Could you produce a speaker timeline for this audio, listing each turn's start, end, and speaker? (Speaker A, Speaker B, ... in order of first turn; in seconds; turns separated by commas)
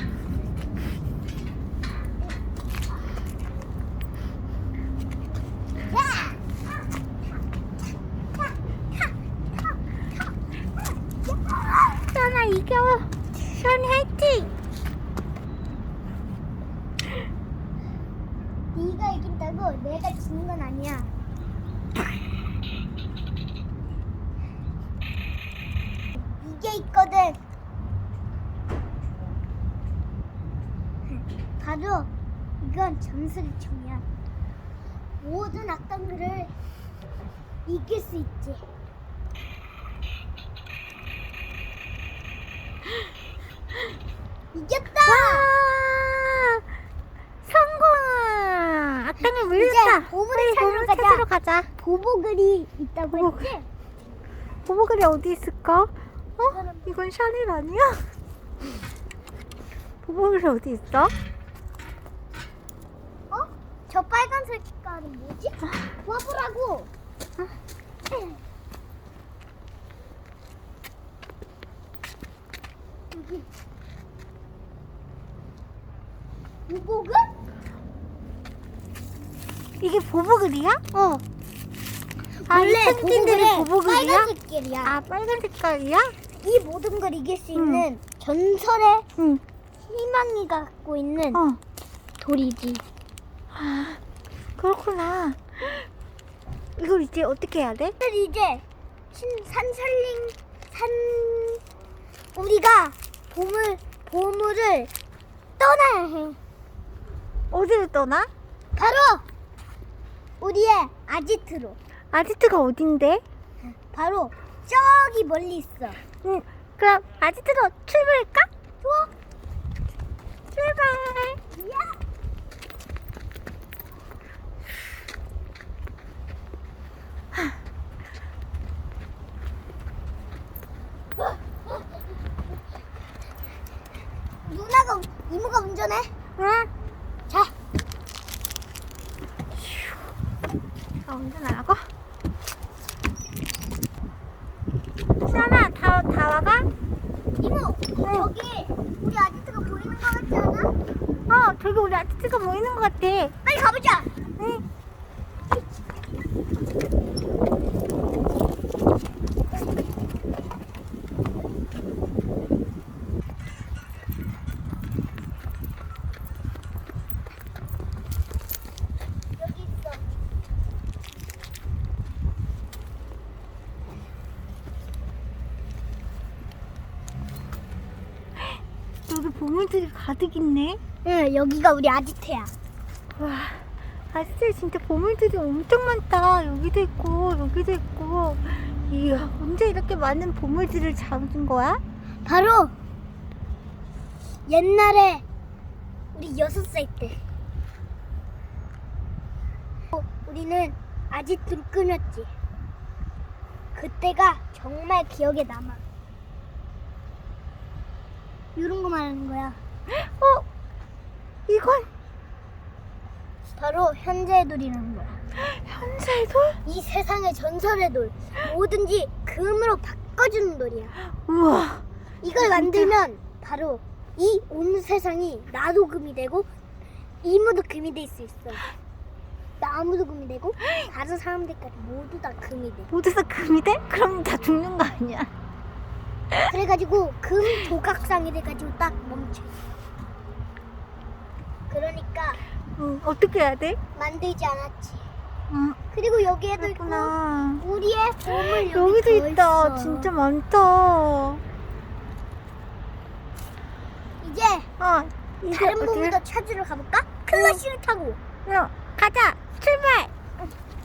Speaker A: 5.9-6.4, Speaker A: 11.2-12.1, Speaker B: 12.1-14.5, Speaker A: 18.7-21.1, Speaker A: 26.4-27.4, Speaker A: 31.1-32.1, Speaker A: 32.6-34.0, Speaker A: 35.2-36.5, Speaker A: 37.6-38.6, Speaker A: 44.5-45.5, Speaker B: 45.1-46.6, Speaker B: 47.4-51.7, Speaker A: 49.5-51.2, Speaker A: 51.8-53.6, Speaker B: 53.1-53.5, Speaker B: 54.6-58.0, Speaker A: 56.5-57.0, Speaker B: 60.0-61.1, Speaker A: 63.3-66.9, Speaker A: 73.1-73.5, Speaker A: 76.7-77.3, Speaker B: 79.8-80.8, Speaker A: 80.9-81.2, Speaker A: 82.4-84.9, Speaker B: 82.5-84.3, Speaker B: 84.8-86.1, Speaker A: 86.4-89.0, Speaker B: 87.5-87.8, Speaker B: 89.2-89.4, Speaker A: 89.8-91.4, Speaker B: 91.3-91.6, Speaker A: 92.2-92.8, Speaker B: 93.5-94.0, Speaker B: 94.6-95.9, Speaker B: 96.8-97.9, Speaker A: 98.0-101.6, Speaker A: 102.3-104.9, Speaker A: 105.6-106.4, Speaker B: 107.5-108.3, Speaker A: 108.8-109.2, Speaker A: 110.4-111.8, Speaker B: 112.1-113.2, Speaker A: 113.8-116.0, Speaker B: 116.2-118.5, Speaker A: 118.8-119.1, Speaker B: 120.5-121.4, Speaker A: 121.5-122.0, Speaker A: 134.4-136.1, Speaker B: 136.4-136.7, Speaker B: 141.1-141.9, Speaker B: 145.2-146.7, Speaker A: 147.4-150.7, Speaker B: 148.0-148.3, Speaker B: 151.3-153.3, Speaker A: 153.4-154.1, Speaker B: 154.4-154.6, Speaker A: 169.4-170.1, Speaker B: 179.1-180.8, Speaker A: 181.0-182.5, Speaker B: 183.2-191.8, Speaker A: 192.2-192.7, Speaker A: 194.5-195.2, Speaker A: 196.1-197.2, Speaker A: 199.9-202.3, Speaker A: 203.7-205.8, Speaker A: 208.6-209.6, Speaker B: 209.9-210.4, Speaker B: 211.5-211.9, Speaker A: 213.6-215.2, Speaker B: 215.3-216.6, Speaker A: 216.6-220.9, Speaker B: 221.2-221.8, Speaker A: 222.2-226.5, Speaker B: 222.4-222.9, Speaker A: 227.2-228.7, Speaker A: 229.6-232.9, Speaker B: 232.9-235.3, Speaker A: 236.5-239.6, Speaker A: 241.7-242.4, Speaker B: 242.8-243.8, Speaker A: 243.9-245.1, Speaker B: 245.5-245.8, Speaker A: 245.9-250.1, Speaker B: 246.6-247.6, Speaker B: 248.5-251.4, Speaker A: 254.2-254.7, Speaker B: 254.8-256.2, Speaker A: 255.5-258.2, Speaker B: 257.3-257.6, Speaker B: 258.4-260.1